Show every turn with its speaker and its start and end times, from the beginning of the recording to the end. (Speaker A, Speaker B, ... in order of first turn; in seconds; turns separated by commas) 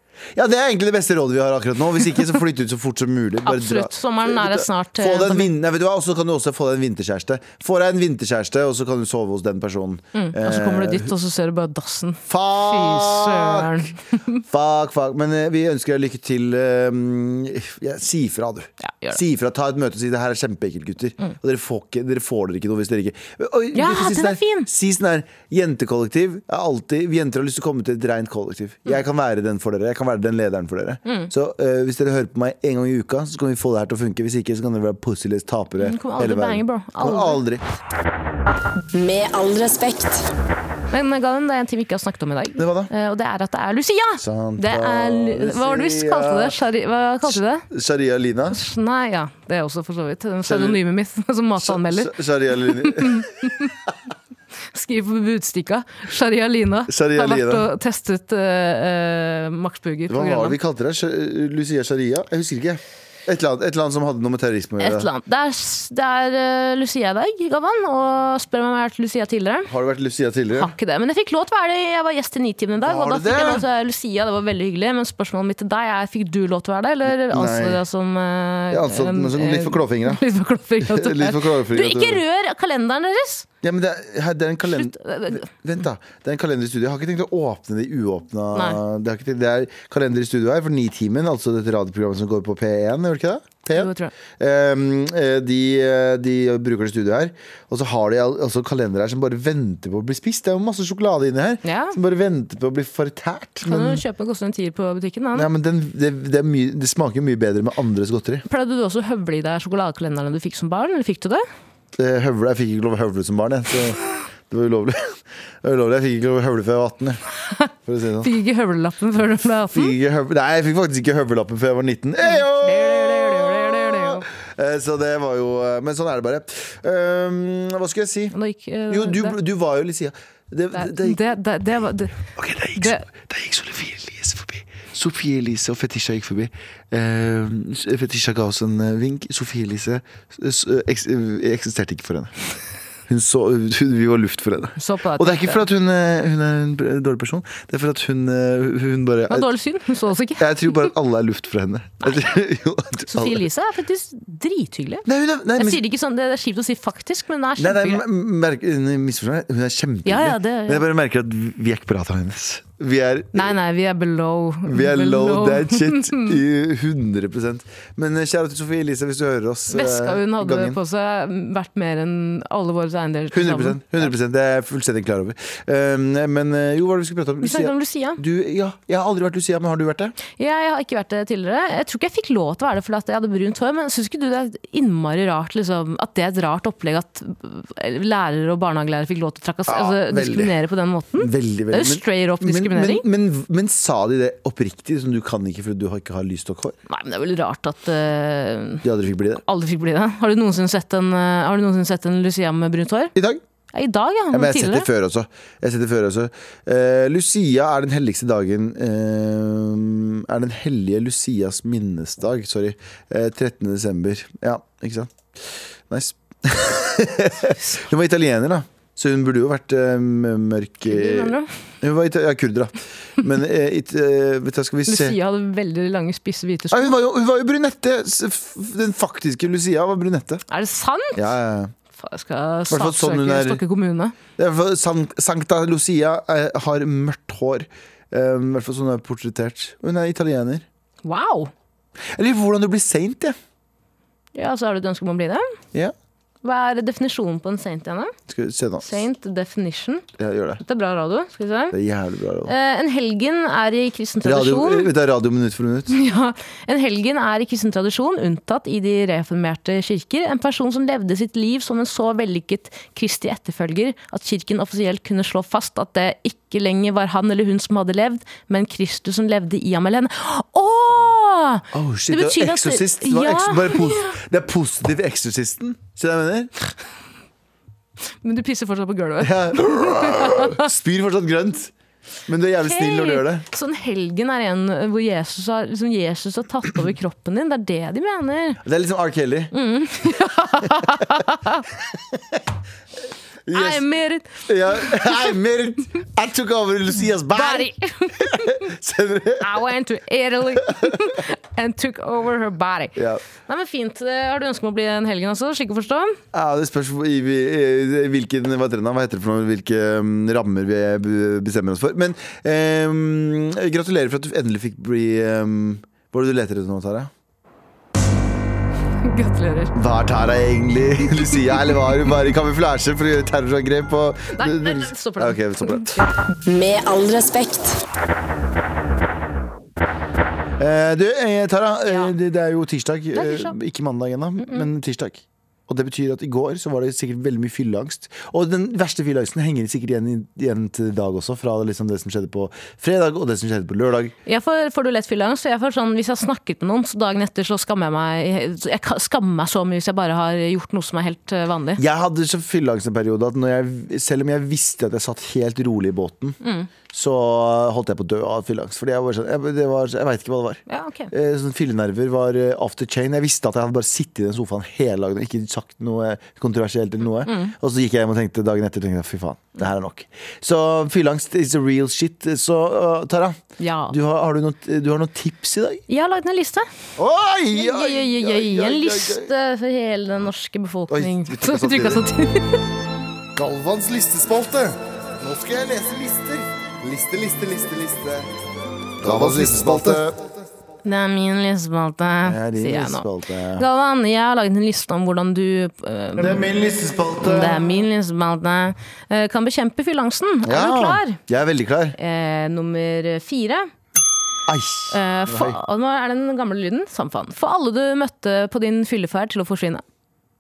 Speaker A: 0.3-11.1, Speaker B: 3.4-5.5, Speaker B: 10.1-14.4, Speaker A: 12.3-13.9, Speaker A: 14.5-37.6, Speaker B: 18.8-19.2, Speaker B: 23.7-24.7, Speaker B: 31.0-31.3, Speaker B: 35.8-37.4, Speaker C: 38.9-40.3, Speaker B: 40.9-47.6, Speaker A: 42.6-42.9, Speaker A: 44.2-46.6, Speaker A: 47.3-48.6, Speaker B: 48.5-53.7, Speaker A: 50.4-50.8, Speaker A: 51.6-53.3, Speaker B: 54.7-60.6, Speaker A: 56.9-57.6, Speaker A: 60.1-65.1, Speaker B: 64.8-69.7, Speaker A: 69.7-70.7, Speaker B: 70.5-83.5, Speaker A: 72.8-73.6, Speaker A: 77.1-77.8, Speaker A: 78.7-80.2, Speaker A: 80.8-82.2, Speaker A: 83.6-104.0, Speaker B: 84.7-85.5, Speaker B: 88.5-88.8, Speaker B: 93.7-94.1, Speaker B: 101.6-102.0, Speaker B: 103.6-105.5, Speaker A: 105.3-108.4, Speaker B: 108.5-111.4, Speaker A: 112.0-117.2, Speaker A: 117.8-118.3, Speaker B: 118.2-119.9, Speaker A: 119.7-128.3, Speaker B: 122.2-124.2, Speaker B: 128.3-129.3, Speaker A: 128.9-131.2, Speaker B: 130.7-132.2, Speaker A: 132.3-142.3, Speaker B: 132.8-133.1, Speaker A: 143.1-149.5, Speaker B: 144.8-145.6, Speaker B: 149.3-150.9, Speaker A: 150.4-153.4, Speaker B: 153.1-155.1, Speaker A: 155.1-155.8, Speaker B: 155.6-158.0, Speaker A: 157.6-163.5, Speaker B: 160.0-160.8, Speaker B: 163.3-166.4, Speaker A: 164.7-170.8, Speaker B: 169.7-174.1, Speaker A: 173.3-180.2, Speaker B: 177.4-178.2, Speaker B: 180.4-193.0, Speaker A: 189.7-190.6, Speaker A: 191.2-196.8, Speaker B: 196.9-198.8, Speaker A: 198.8-199.4, Speaker B: 199.4-203.1, Speaker A: 203.1-203.4, Speaker B: 203.7-204.9, Speaker A: 204.3-215.1, Speaker A: 215.9-225.2, Speaker B: 220.8-221.5, Speaker B: 224.8-226.9, Speaker A: 226.7-230.4, Speaker B: 230.5-231.2, Speaker A: 231.2-231.7, Speaker B: 231.9-234.2, Speaker A: 232.7-233.6, Speaker A: 234.4-240.6, Speaker B: 241.0-241.5, Speaker A: 242.1-243.3, Speaker B: 244.3-245.5, Speaker B: 246.4-248.1, Speaker A: 248.3-249.0, Speaker B: 248.8-250.0, Speaker A: 250.2-250.6, Speaker B: 250.6-251.8, Speaker A: 251.7-252.5, Speaker B: 252.4-254.9, Speaker A: 254.2-255.9, Speaker B: 255.9-274.1, Speaker A: 271.7-276.5, Speaker B: 278.2-280.6, Speaker A: 279.2-281.7, Speaker A: 282.3-283.4, Speaker B: 282.6-288.6, Speaker A: 288.6-289.5, Speaker B: 289.5-291.6, Speaker A: 290.7-291.0, Speaker A: 291.9-292.4, Speaker A: 293.4-293.8, Speaker B: 293.5-295.3, Speaker A: 294.4-299.6, Speaker B: 297.3-298.6, Speaker B: 299.4-306.2, Speaker A: 302.9-303.2, Speaker A: 306.3-317.1, Speaker B: 319.0-319.7, Speaker A: 319.7-326.0, Speaker B: 324.3-326.1, Speaker C: 326.4-327.8, Speaker A: 330.6-344.1, Speaker B: 331.9-332.1, Speaker B: 333.1-333.5, Speaker B: 334.4-334.6, Speaker B: 344.2-351.8, Speaker A: 351.8-356.4, Speaker B: 356.4-356.7, Speaker A: 356.9-375.8, Speaker B: 360.7-361.1, Speaker B: 367.2-367.5, Speaker B: 373.6-373.9, Speaker B: 375.9-376.7, Speaker A: 377.0-379.3, Speaker B: 377.5-382.6, Speaker A: 380.9-382.0, Speaker D: 383.4-384.8, Speaker A: 385.2-388.3, Speaker A: 389.0-390.2, Speaker D: 389.0-390.1, Speaker B: 390.8-393.1, Speaker A: 392.2-393.6, Speaker B: 393.6-396.5, Speaker A: 396.2-397.8, Speaker B: 397.2-401.2, Speaker A: 400.4-401.9, Speaker B: 401.9-403.7, Speaker A: 404.5-405.6, Speaker B: 404.9-409.8